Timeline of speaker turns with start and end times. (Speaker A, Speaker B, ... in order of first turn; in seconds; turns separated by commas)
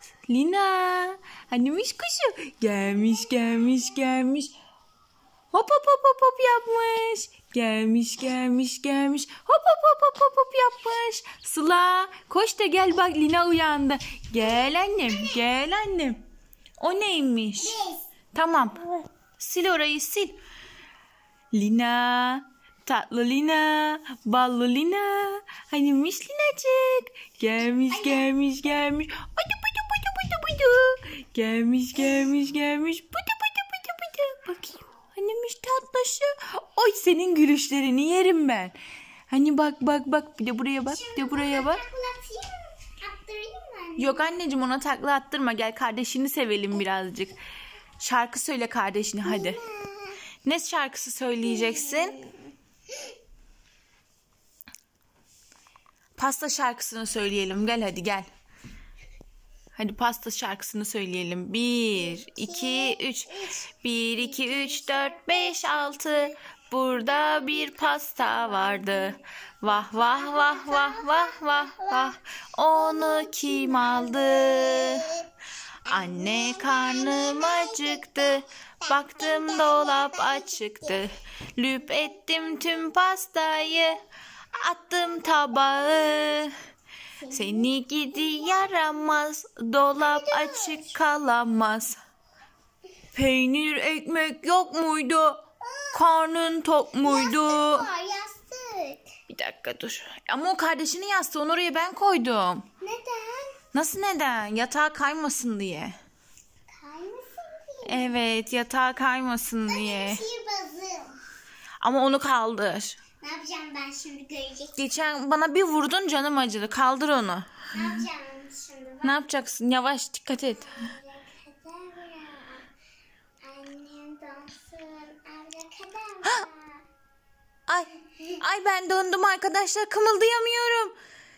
Speaker A: 0.3-4.5, Speaker A: 5.5-16.2, Speaker B: 14.9-15.4, Speaker A: 16.8-17.8, Speaker B: 17.6-18.1, Speaker A: 18.3-20.4, Speaker A: 21.5-38.8, Speaker B: 27.9-28.2, Speaker A: 39.3-41.8, Speaker B: 40.9-44.3, Speaker A: 44.0-47.4, Speaker A: 48.0-49.6, Speaker B: 49.2-50.2, Speaker A: 50.4-52.2, Speaker B: 51.5-52.5, Speaker A: 56.2-58.3, Speaker A: 59.7-75.1, Speaker B: 61.9-66.3, Speaker B: 67.1-72.2, Speaker B: 72.7-75.3, Speaker B: 75.8-81.0, Speaker A: 75.9-84.0, Speaker A: 84.5-86.5, Speaker B: 87.2-89.0, Speaker A: 87.3-92.0, Speaker B: 90.0-90.9, Speaker A: 93.1-97.9, Speaker B: 95.6-96.0, Speaker B: 97.0-99.1, Speaker A: 99.3-102.7, Speaker B: 102.8-103.6, Speaker A: 103.7-106.0, Speaker B: 106.7-108.1, Speaker A: 107.8-110.2, Speaker B: 109.7-111.2, Speaker A: 111.8-113.0, Speaker B: 113.2-114.9, Speaker A: 114.8-118.0, Speaker B: 117.7-119.3, Speaker A: 119.0-120.9, Speaker B: 120.4-122.7, Speaker B: 123.4-126.8, Speaker A: 127.7-130.9, Speaker B: 128.2-128.4